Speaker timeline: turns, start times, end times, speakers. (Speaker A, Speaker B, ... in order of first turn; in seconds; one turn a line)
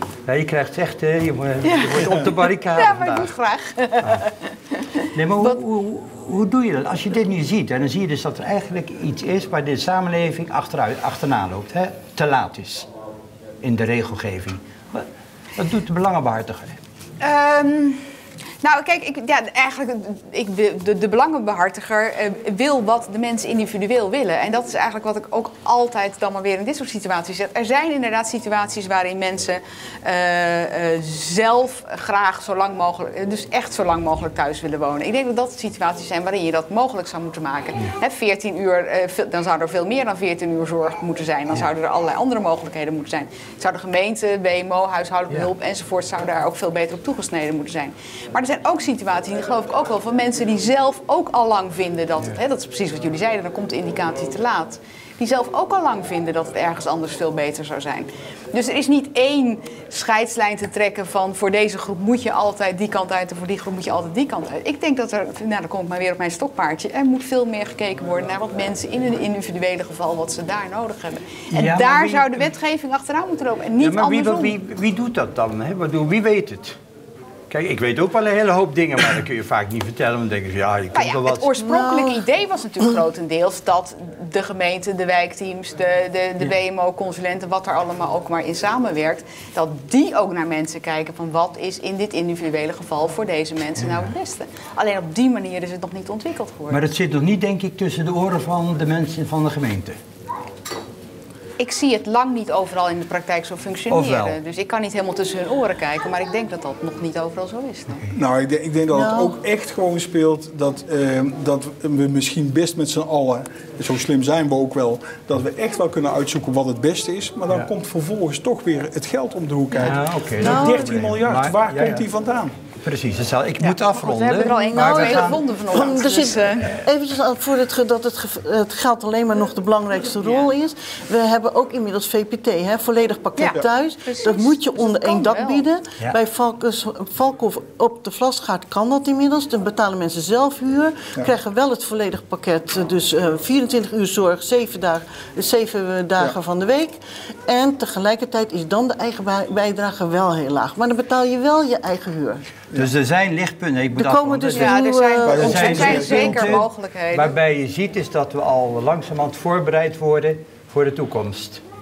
Speaker A: 0.3-3.3
Speaker B: 1.6-4.3
Speaker A: 5.1-12.9
Speaker A: 13.6-16.8
Speaker B: 17.2-18.1
Speaker B: 18.6-74.6
Speaker A: 71.5-72.5
Speaker A: 73.8-76.8
Speaker A: 77.5-81.5
Speaker B: 80.9-96.8
Speaker C: 81.6-82.2
Speaker A: 93.8-94.1
Speaker A: 96.7-100.0
Speaker B: 101.6-108.0
Speaker A: 103.9-104.4
Speaker D: 108.1-122.5
Speaker C: 108.9-109.4
Speaker A: 119.8-122.0
Speaker C: 120.4-121.0
Speaker A: 122.8-125.4
Speaker B: 123.6-126.7
Speaker C: 124.7-152.4
Speaker B: 130.2-130.5
Speaker B: 133.4-135.7
Speaker A: 152.8-154.8
Speaker C: 154.0-156.0
Speaker B: 154.6-157.4
Speaker D: 155.3-156.6
Speaker A: 155.4-161.6